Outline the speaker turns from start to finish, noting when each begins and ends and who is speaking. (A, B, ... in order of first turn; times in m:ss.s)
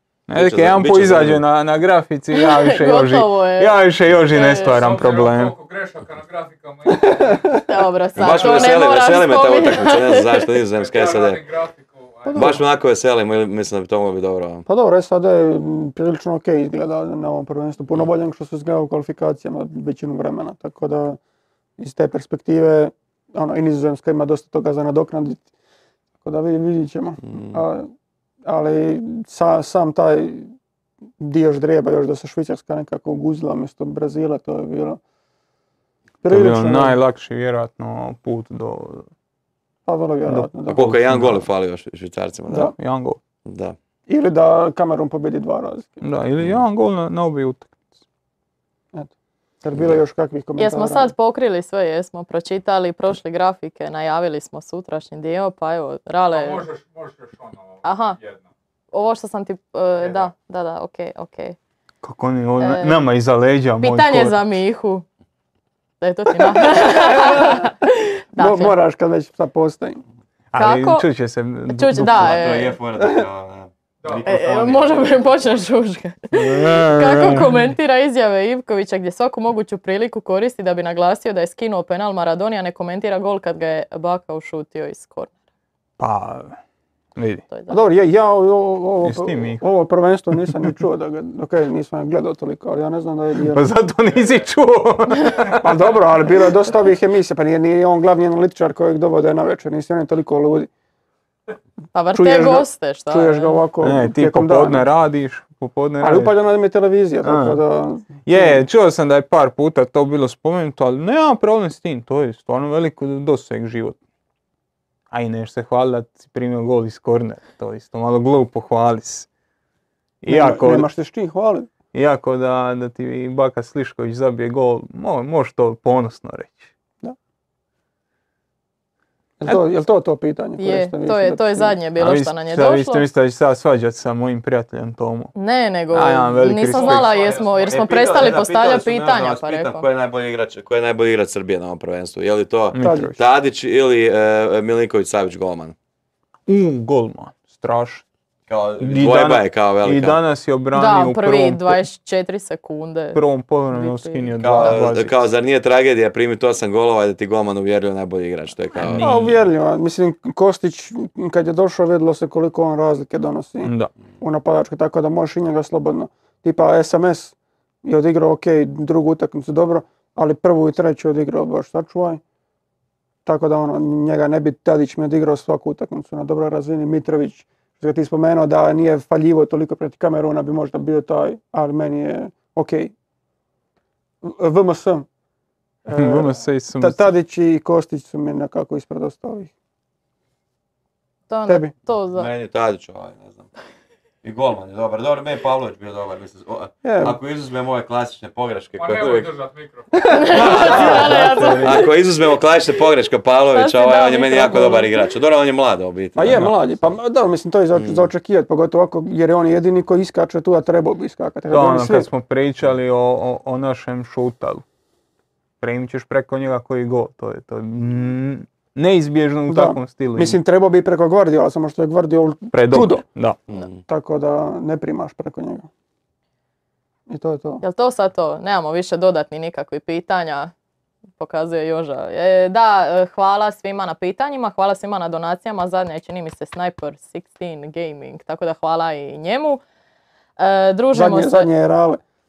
0:00.3-0:05.5 A
0:00.3-0:01.4 B
0:02.3-0:03.8 C
0:04.3-0:04.8 C
0:04.6-0:08.9 D
0:07.6-0:10.5 C
0:08.2-0:11.4 B
0:10.7-0:12.6 D
0:12.3-0:12.6 E
0:12.3-0:14.6 B
0:14.6-0:21.2 E
0:21.8-0:25.5 E
0:26.2-0:27.9 E
0:27.2-0:27.6 B
0:28.4-0:30.5 E
0:31.2-0:35.0 E
0:36.2-0:37.0 E
0:36.3-0:39.1 A
0:39.8-0:40.9 E
0:40.2-0:41.5 A
0:40.7-0:42.7 B
0:42.5-0:42.7 E
0:42.8-0:43.2 A
0:43.4-0:43.8 B
0:44.1-0:46.0 E
0:46.0-0:47.8 A
0:48.9-0:51.1 E
0:50.6-0:56.7 C
0:56.3-0:58.4 D
0:57.8-0:58.2 C
0:58.9-1:01.6 C
1:00.0-1:00.3 D
1:02.0-1:04.4 A
1:02.6-1:03.0 C
1:03.8-1:05.0 C
1:06.0-1:08.7 C
1:06.8-1:07.6 E
1:08.4-1:10.0 E
1:10.5-1:12.4 A
1:10.6-1:11.0 C
1:11.7-1:12.8 C
1:12.1-1:15.0 B
1:14.0-1:15.6 D
1:14.2-1:25.3 C
1:16.3-1:17.7 A
1:26.0-1:26.6 A
1:27.2-1:27.4 A
1:27.5-1:27.8 C
1:27.7-1:33.6 E
1:29.0-1:29.6 A
1:30.3-1:30.6 A
1:33.5-1:35.7 A
1:35.6-1:40.7 E
1:41.9-1:43.6 C
1:42.1-1:44.9 E
1:43.8-1:46.3 A
1:46.0-1:48.6 E
1:47.2-1:47.6 A
1:48.2-1:54.0 A
1:55.1-1:59.3 A
2:00.2-2:00.9 A
2:00.3-2:01.7 E
2:01.9-2:06.7 A
2:09.4-2:11.8 E
2:10.6-2:13.0 C
2:12.0-2:15.3 A
2:15.3-2:19.9 C
2:15.9-2:17.1 A
2:16.7-2:18.4 D
2:17.7-2:25.7 B
2:22.7-2:23.2 A
2:22.8-2:23.1 E
2:26.5-2:28.0 A
2:28.5-2:30.2 B
2:28.8-2:31.8 A
2:30.7-2:33.2 C
2:33.1-2:35.2 A
2:33.7-2:34.7 C
2:34.4-2:39.1 B
2:38.7-2:39.4 A
2:38.9-2:52.2 E
2:43.6-2:43.9 A
2:53.2-3:02.9 E
3:04.2-3:05.1 E
3:05.8-3:09.5 E
3:05.9-3:07.1 A
3:11.3-3:12.3 C
3:11.5-3:11.7 E
3:12.1-3:13.5 B
3:14.2-3:19.3 B
3:16.8-3:17.2 E
3:18.8-3:21.1 D
3:20.1-3:21.9 C
3:20.3-3:21.9 A
3:20.3-3:26.4 B
3:23.5-3:25.0 C
3:26.1-3:32.1 E
3:26.3-3:26.5 A
3:27.7-3:28.1 B
3:31.5-3:34.6 A
3:35.6-3:40.4 A
3:39.5-3:43.0 E
3:42.5-3:43.4 A
3:43.5-3:43.8 B
3:43.8-3:45.7 E
3:47.1-3:47.6 E
3:47.6-3:50.5 C
3:51.2-3:59.6 C
4:00.4-4:01.5 C
4:00.9-4:02.0 E